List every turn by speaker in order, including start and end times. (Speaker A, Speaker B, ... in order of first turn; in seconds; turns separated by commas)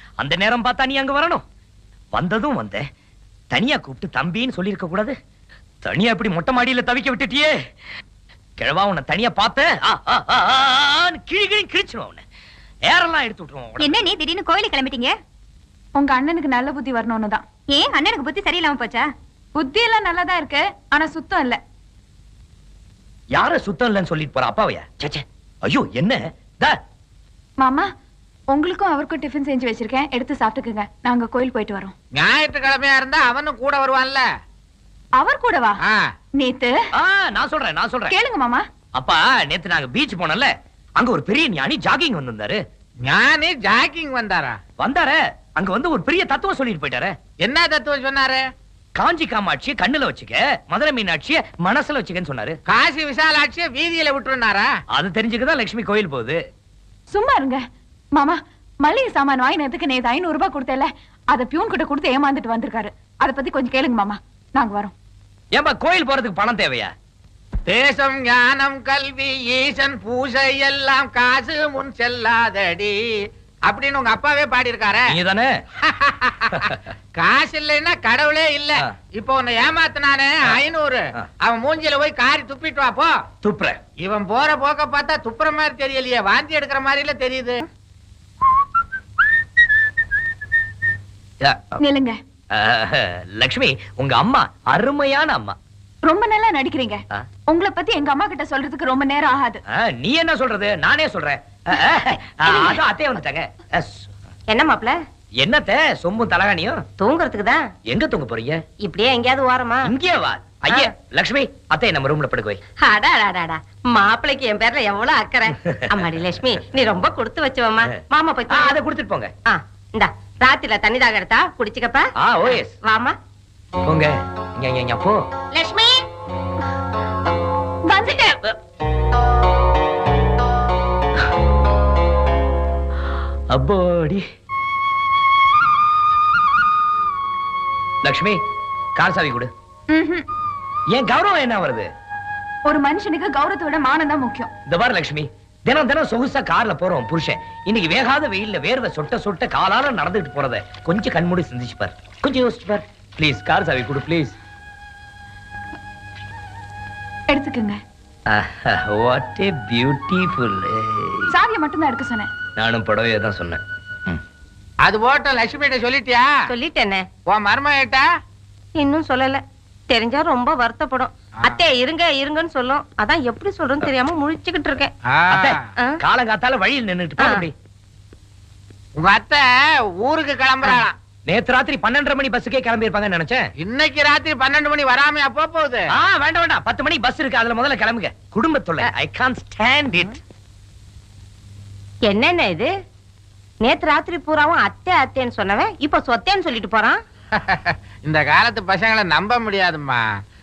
Speaker A: 0.2-1.4, Speaker A: 2.1-2.8, Speaker A: 3.5-5.1, Speaker A: 5.8-7.5, Speaker A: 8.6-12.2, Speaker A: 12.9-14.0, Speaker B: 13.8-15.2, Speaker C: 15.9-17.4, Speaker B: 17.7-19.1, Speaker C: 19.5-21.6, Speaker A: 23.3-26.8, Speaker C: 27.6-27.9, Speaker C: 28.5-31.9, Speaker D: 32.1-34.2, Speaker C: 35.2-35.8, Speaker C: 36.4-36.8, Speaker A: 37.0-38.1, Speaker C: 38.1-38.6, Speaker A: 39.0-42.6, Speaker D: 43.0-44.6, Speaker A: 44.8-47.1, Speaker D: 47.4-48.4, Speaker A: 49.0-52.6, Speaker D: 52.7-54.7, Speaker A: 54.9-56.4, Speaker C: 57.1-57.6, Speaker C: 58.1-64.9, Speaker A: 65.5-66.9, Speaker D: 67.7-73.1, Speaker D: 73.7-75.1, Speaker A: 75.1-75.6, Speaker D: 75.8-83.2, Speaker A: 76.5-76.9, Speaker A: 83.4-83.8, Speaker D: 84.0-87.6, Speaker A: 91.4-91.8, Speaker C: 91.8-92.2, Speaker A: 92.5-95.5, Speaker C: 96.0-99.6, Speaker A: 99.7-104.1, Speaker E: 102.5-102.8, Speaker E: 104.5-105.0, Speaker A: 105.4-106.8, Speaker E: 107.0-107.6, Speaker A: 107.9-108.6, Speaker E: 108.8-109.9, Speaker A: 109.8-112.6, Speaker E: 112.8-118.8, Speaker A: 115.6-116.0, Speaker A: 117.8-119.3, Speaker E: 119.5-123.1, Speaker A: 122.2-122.7, Speaker A: 123.8-125.2, Speaker E: 125.5-126.0, Speaker C: 127.8-128.4, Speaker A: 133.5-134.2, Speaker A: 138.0-138.4, Speaker A: 138.9-139.5, Speaker C: 139.9-140.2, Speaker A: 140.9-141.9, Speaker C: 142.6-144.5, Speaker A: 144.7-154.3, Speaker C: 157.3-157.8, Speaker A: 158.3-161.3, Speaker C: 161.3-162.3, Speaker A: 162.6-164.2, Speaker D: 164.8-166.3, Speaker E: 166.5-167.1, Speaker D: 167.2-168.0, Speaker E: 168.8-174.9, Speaker D: 175.1-175.6, Speaker A: 175.3-177.5, Speaker E: 177.2-177.4, Speaker D: 178.9-179.5, Speaker D: 180.0-180.9, Speaker A: 180.6-183.4, Speaker D: 183.6-185.8, Speaker A: 185.9-190.2, Speaker E: 192.0-192.7, Speaker E: 193.6-197.0, Speaker D: 197.4-200.0